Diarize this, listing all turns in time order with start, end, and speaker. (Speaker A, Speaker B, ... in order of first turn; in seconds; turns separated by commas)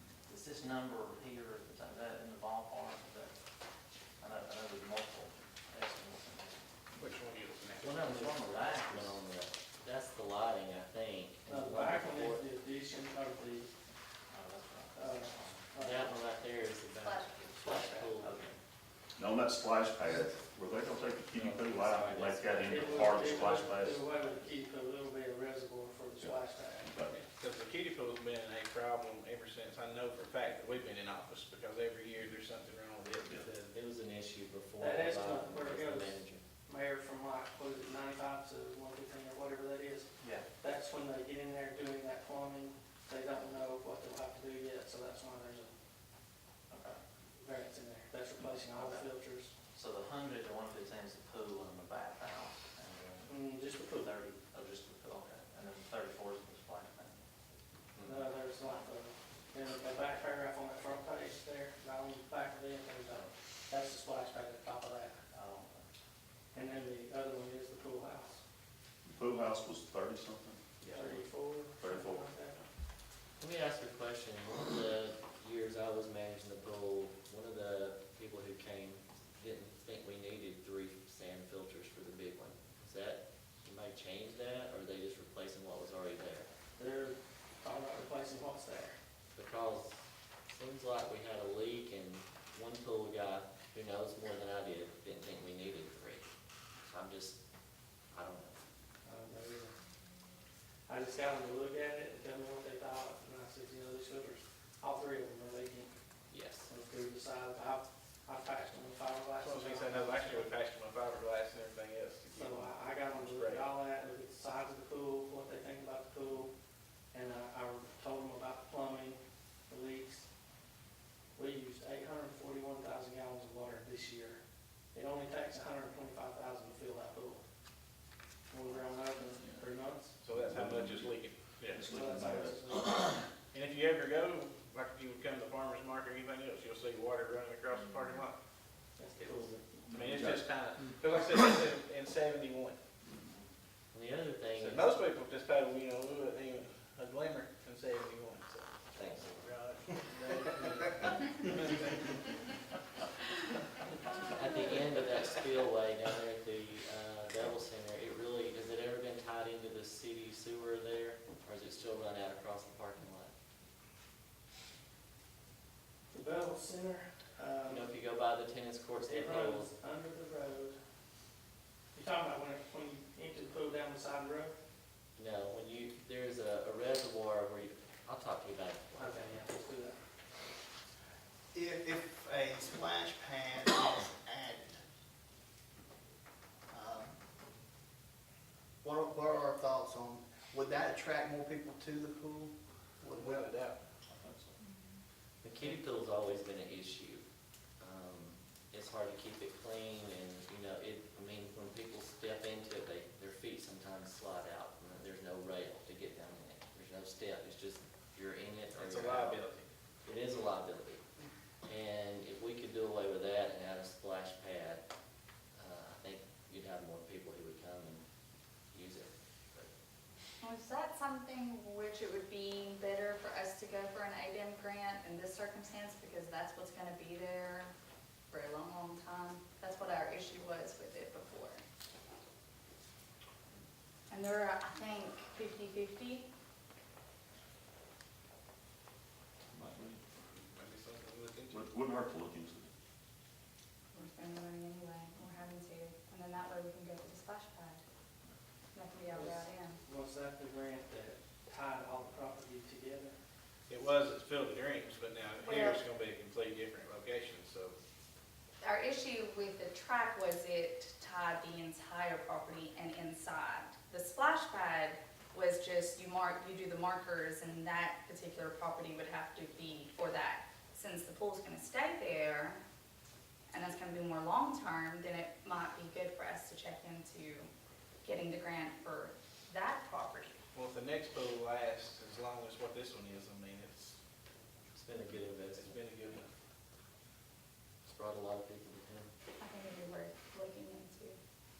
Speaker A: 0.2-3.4, Speaker A: 4.2-7.0, Speaker B: 7.0-7.9, Speaker C: 7.8-12.4, Speaker A: 7.8-9.2, Speaker D: 11.5-13.7, Speaker A: 14.3-15.7, Speaker D: 14.9-16.2, Speaker C: 15.8-18.3, Speaker E: 17.0-17.4, Speaker D: 17.6-18.1, Speaker A: 18.2-18.6, Speaker F: 19.2-24.1, Speaker C: 21.3-24.2, Speaker D: 22.6-27.0, Speaker F: 26.2-27.2, Speaker B: 27.3-33.4, Speaker C: 33.3-36.4, Speaker D: 34.8-45.7, Speaker A: 40.2-40.5, Speaker A: 46.7-47.0, Speaker D: 47.4-49.5, Speaker A: 48.7-49.0, Speaker A: 49.7-53.3, Speaker D: 53.2-54.1, Speaker A: 54.0-57.2, Speaker C: 58.0-58.2, Speaker D: 58.0-65.2, Speaker A: 65.3-65.9, Speaker D: 66.5-68.4, Speaker F: 69.0-70.6, Speaker A: 70.8-71.2, Speaker D: 70.9-72.7, Speaker F: 71.8-72.2, Speaker C: 73.4-86.5, Speaker D: 86.8-89.0, Speaker C: 89.3-96.3, Speaker C: 96.8-97.4, Speaker C: 98.1-98.5, Speaker D: 99.0-99.8, Speaker D: 100.9-105.9, Speaker C: 106.3-106.7, Speaker D: 106.7-110.5, Speaker B: 109.4-113.7, Speaker D: 112.3-116.5, Speaker D: 117.1-120.3, Speaker D: 121.3-124.4, Speaker D: 124.9-127.4, Speaker D: 128.5-130.1, Speaker B: 130.2-131.8, Speaker F: 130.3-131.2, Speaker F: 131.7-133.2, Speaker D: 131.8-132.9, Speaker B: 133.5-138.3, Speaker D: 139.0-139.6, Speaker B: 139.9-142.8, Speaker F: 139.9-140.5, Speaker C: 143.9-144.9, Speaker B: 144.6-152.0, Speaker C: 148.9-149.3, Speaker C: 154.3-163.3, Speaker D: 166.1-167.9, Speaker C: 167.6-169.7, Speaker D: 169.0-170.8, Speaker D: 171.9-174.5, Speaker C: 175.2-179.4, Speaker D: 178.9-180.0, Speaker G: 181.5-184.8, Speaker G: 186.7-187.2, Speaker G: 188.8-193.5, Speaker B: 193.0-193.8, Speaker F: 194.1-194.5, Speaker E: 194.6-194.9, Speaker C: 195.4-197.2, Speaker C: 197.8-209.4, Speaker B: 208.8-209.7, Speaker C: 210.0-211.0, Speaker C: 211.6-214.8, Speaker C: 215.6-218.0, Speaker C: 218.7-219.7, Speaker E: 220.4-227.7, Speaker E: 228.3-231.6, Speaker E: 234.1-236.2, Speaker F: 239.5-240.0, Speaker B: 240.3-241.6, Speaker F: 241.5-242.7, Speaker E: 243.9-247.8, Speaker E: 248.7-249.8, Speaker D: 249.1-253.1, Speaker B: 253.7-257.8, Speaker E: 255.4-255.8, Speaker E: 258.6-272.6, Speaker E: 273.5-277.5, Speaker E: 278.0-280.4, Speaker B: 280.5-284.0, Speaker C: 284.7-286.1, Speaker B: 285.5-286.3, Speaker C: 287.8-289.1, Speaker E: 289.4-291.2